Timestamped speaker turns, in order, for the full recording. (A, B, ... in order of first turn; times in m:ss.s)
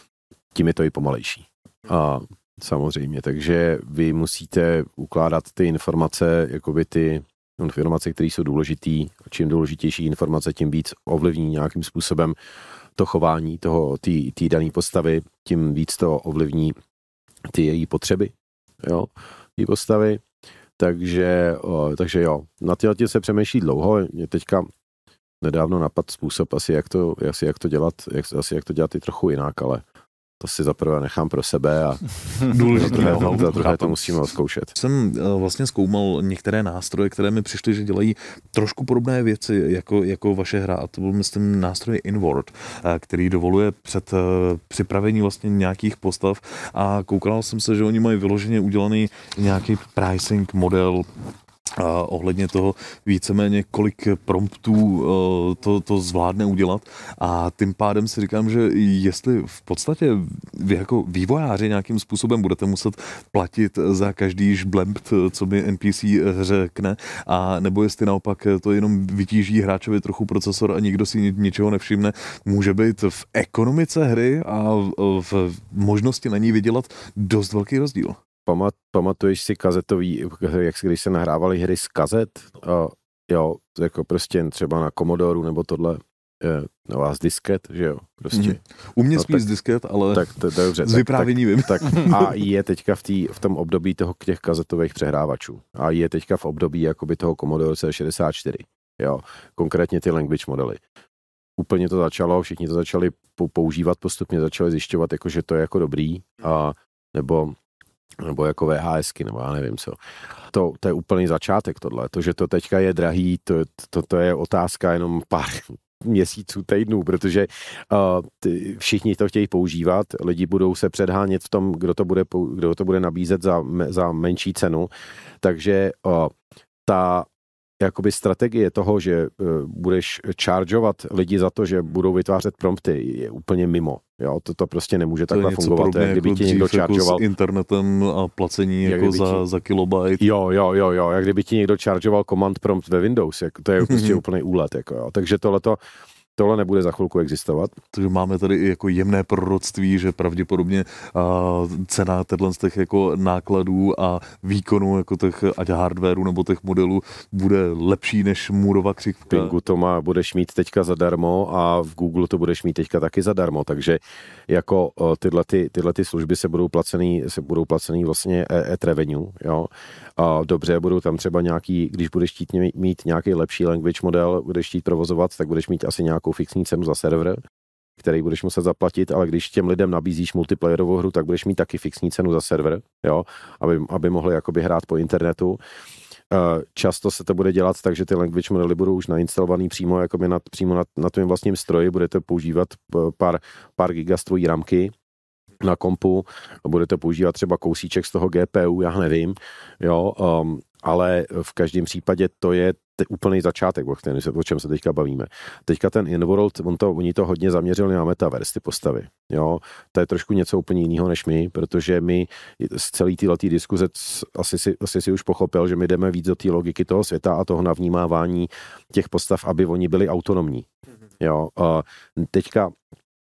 0:00.5-0:12.4 A
0:13.0-0:16.8 A
0:17.5-0:20.2 A
0:20.8-0:24.7 A
0:25.4-0:29.8 A
0:30.4-0:34.7 A
0:32.5-0:34.0 B
0:34.8-0:51.1 B
0:51.8-1:18.2 B
1:18.5-1:28.6 A
1:28.3-1:32.4 B
1:29.2-1:29.4 A
1:30.1-1:40.8 A
1:41.6-1:47.6 A
1:48.2-1:50.0 A
1:50.5-2:06.3 A
2:06.9-2:07.3 A
2:07.8-2:17.2 A
2:15.3-2:20.2 B
2:18.8-2:19.4 A
2:20.2-2:25.8 A
2:23.9-2:24.2 B
2:26.4-2:27.8 A
2:27.9-2:39.5 B
2:39.3-2:57.4 A
2:58.0-3:05.6 A
3:06.3-3:14.9 A
3:15.6-3:40.7 A
3:41.2-3:42.8 A